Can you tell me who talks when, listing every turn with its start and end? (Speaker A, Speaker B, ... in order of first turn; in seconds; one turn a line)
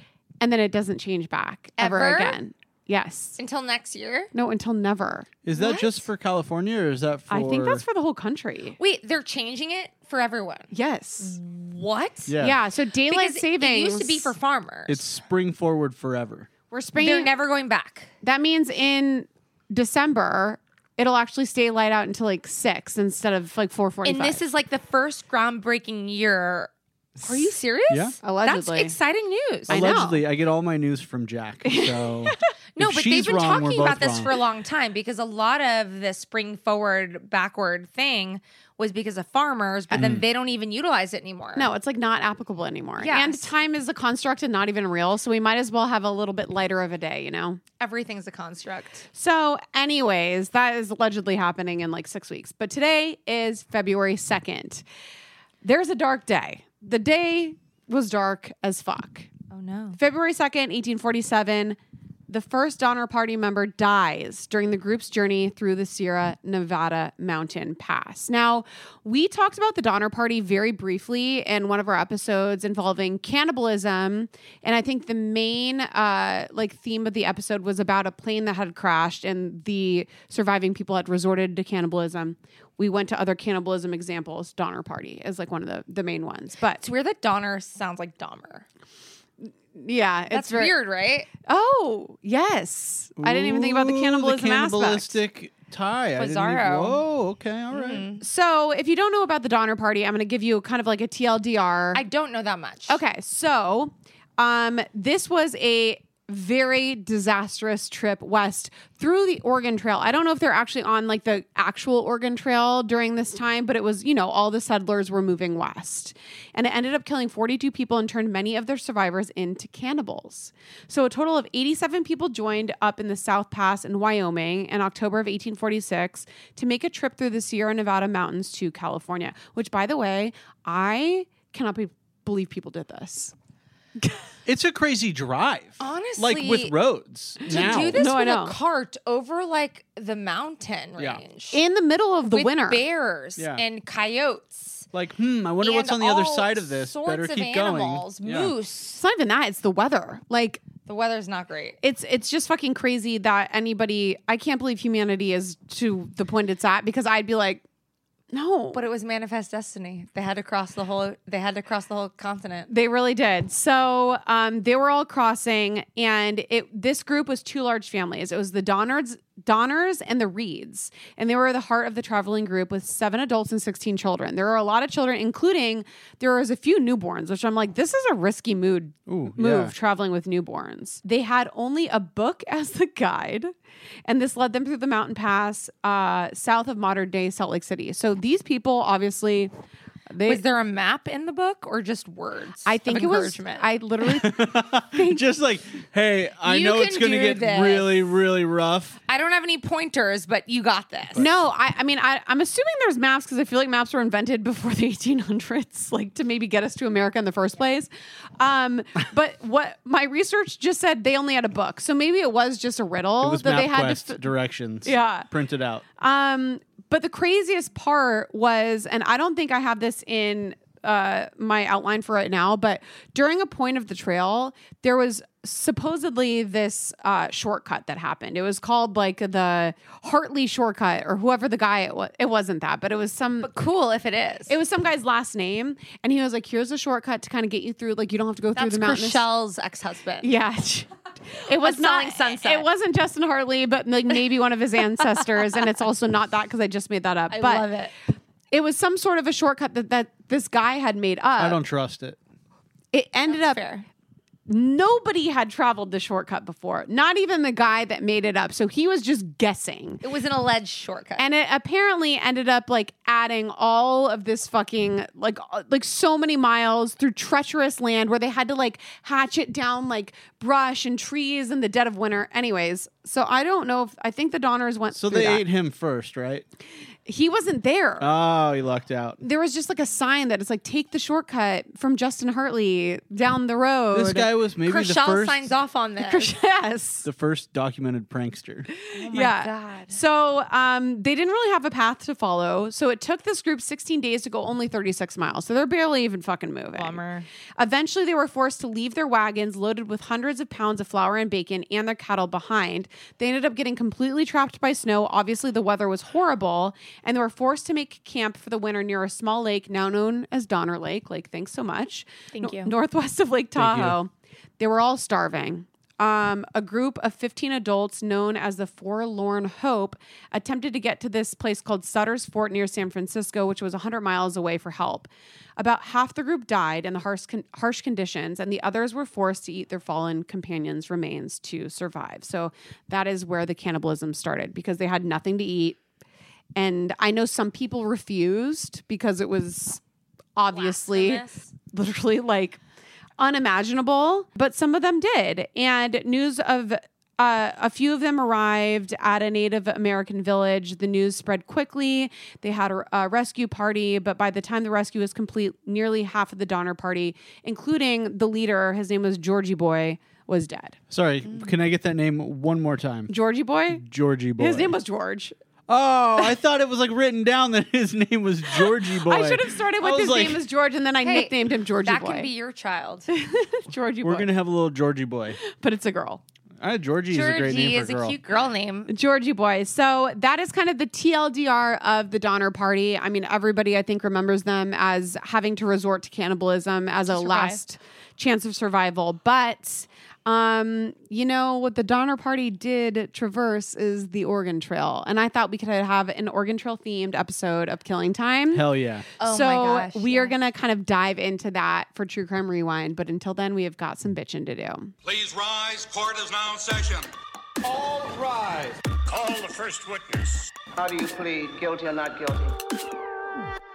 Speaker A: 0.4-3.4
Speaker B: 1.8-2.4
Speaker B: 3.4-4.3
Speaker A: 4.3-6.0
Speaker C: 5.4-7.8
Speaker A: 7.3-8.8
Speaker B: 8.8-12.3
Speaker A: 10.7-11.4
Speaker C: 12.3-12.6
Speaker A: 12.4-14.3
Speaker B: 13.1-15.0
Speaker C: 14.9-16.5
Speaker A: 16.7-17.3
Speaker B: 16.9-18.1
Speaker A: 18.2-24.4
Speaker B: 24.0-26.7
Speaker A: 27.2-27.6
Speaker B: 27.2-30.1
Speaker C: 27.9-28.1
Speaker A: 28.2-28.9
Speaker A: 29.7-30.2
Speaker C: 29.7-34.3
Speaker A: 31.7-32.4
Speaker B: 32.8-41.7
Speaker C: 39.9-40.2
Speaker A: 41.5-47.6
Speaker B: 43.0-43.5
Speaker B: 47.8-49.1
Speaker A: 49.1-54.8
Speaker A: 55.6-59.3
Speaker B: 59.5-60.0
Speaker A: 60.0-86.8
Speaker B: 86.8-88.7
Speaker A: 89.4-90.7
Speaker B: 90.3-91.3
Speaker A: 91.5-95.2
Speaker C: 93.2-98.0
Speaker B: 96.2-97.0
Speaker B: 97.7-98.2
Speaker A: 98.2-102.0
Speaker B: 101.9-103.0
Speaker A: 102.9-133.3
Speaker C: 134.4-138.1
Speaker B: 135.8-136.7
Speaker A: 137.4-138.5
Speaker B: 137.5-141.6
Speaker C: 141.0-141.2
Speaker A: 141.5-142.8
Speaker B: 142.2-144.8
Speaker C: 143.4-143.6
Speaker C: 144.9-148.5
Speaker B: 145.6-148.8
Speaker A: 148.8-150.7
Speaker B: 150.8-151.8
Speaker A: 151.8-157.6
Speaker A: 158.3-158.8
Speaker B: 158.7-162.7
Speaker A: 162.7-183.5
Speaker C: 179.1-179.7
Speaker A: 184.1-189.5
Speaker A: 190.1-190.4
Speaker B: 190.2-193.7
Speaker A: 192.7-195.2
Speaker C: 194.0-199.0
Speaker B: 196.4-198.1
Speaker B: 199.1-201.2
Speaker A: 201.2-214.2
Speaker C: 213.2-215.8
Speaker A: 214.8-215.3
Speaker A: 216.0-233.5
Speaker B: 233.4-234.6
Speaker A: 234.5-239.2
Speaker B: 238.6-240.3
Speaker A: 240.2-240.9
Speaker A: 241.5-247.7
Speaker B: 241.5-242.7
Speaker B: 247.3-247.9
Speaker A: 248.5-251.6
Speaker C: 251.4-252.2
Speaker A: 252.9-253.6
Speaker B: 253.3-253.8
Speaker A: 254.5-260.0
Speaker B: 260.0-261.3
Speaker A: 261.2-275.4
Speaker C: 274.9-276.4
Speaker A: 277.1-278.1
Speaker C: 278.0-279.2
Speaker A: 279.2-284.3
Speaker C: 283.9-285.5
Speaker B: 284.6-286.3
Speaker A: 286.0-287.1
Speaker C: 287.0-288.7
Speaker B: 288.9-290.0
Speaker A: 289.1-297.0
Speaker B: 296.7-297.3
Speaker A: 297.6-335.8
Speaker B: 312.3-312.7
Speaker C: 313.6-314.0
Speaker A: 336.6-339.8
Speaker A: 340.4-342.6
Speaker B: 340.5-341.5
Speaker A: 343.2-360.8
Speaker C: 360.9-363.1
Speaker A: 363.1-363.8
Speaker C: 363.7-364.8
Speaker A: 364.4-365.3
Speaker C: 365.7-370.5
Speaker A: 368.6-372.3
Speaker B: 371.0-373.1
Speaker A: 373.1-374.3
Speaker C: 374.0-375.4
Speaker A: 375.5-376.2
Speaker C: 376.6-378.2
Speaker B: 377.1-378.9
Speaker A: 378.9-398.6
Speaker B: 387.1-387.6
Speaker C: 398.5-399.1
Speaker B: 399.2-400.3
Speaker A: 399.2-404.9
Speaker D: 405.0-407.1
Speaker E: 407.7-408.5
Speaker D: 409.1-410.4
Speaker E: 410.8-412.5